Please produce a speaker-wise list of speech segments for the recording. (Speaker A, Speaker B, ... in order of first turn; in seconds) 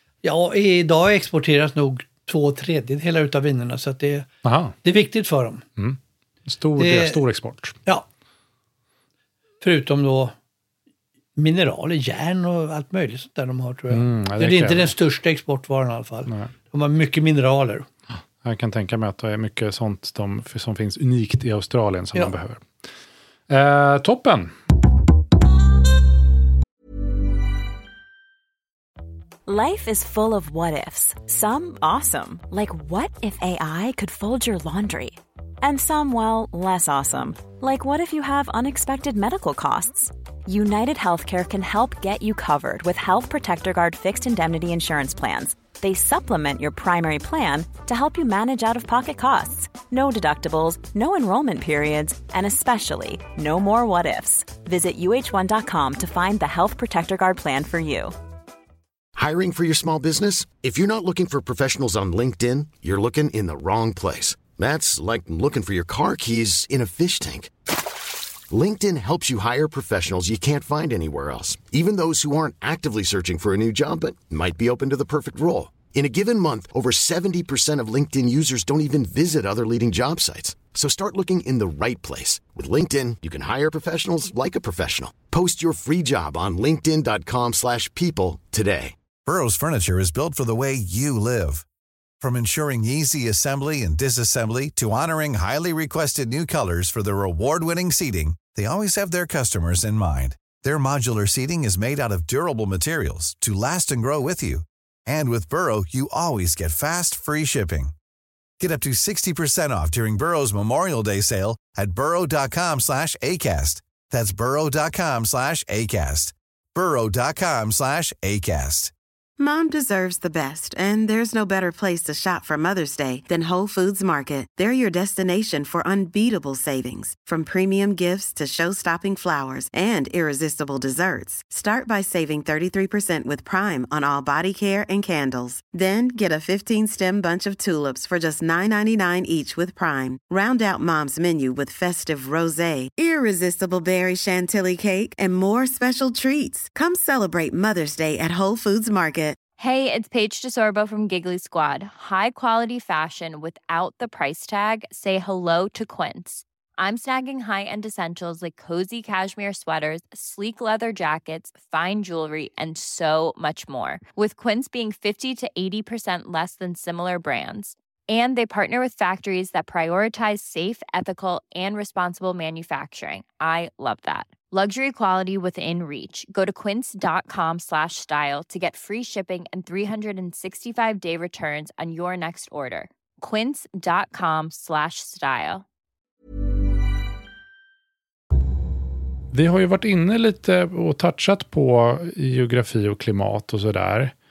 Speaker A: 0.2-4.3, 4.8-5.6, 6.8-7.2, 9.6-10.3, 11.4-17.9
Speaker B: 4.4-4.8, 5.8-7.8, 13.9-14.9, 18.4-22.6, 23.5-24.5, 189.3-194.1
Speaker C: 29.5-58.1
Speaker D: 59.2-67.5, 68.5-89.0
Speaker E: 89.2-91.6, 92.2-107.9, 108.6-118.9
Speaker F: 119.4-149.4
Speaker G: 149.6-185.6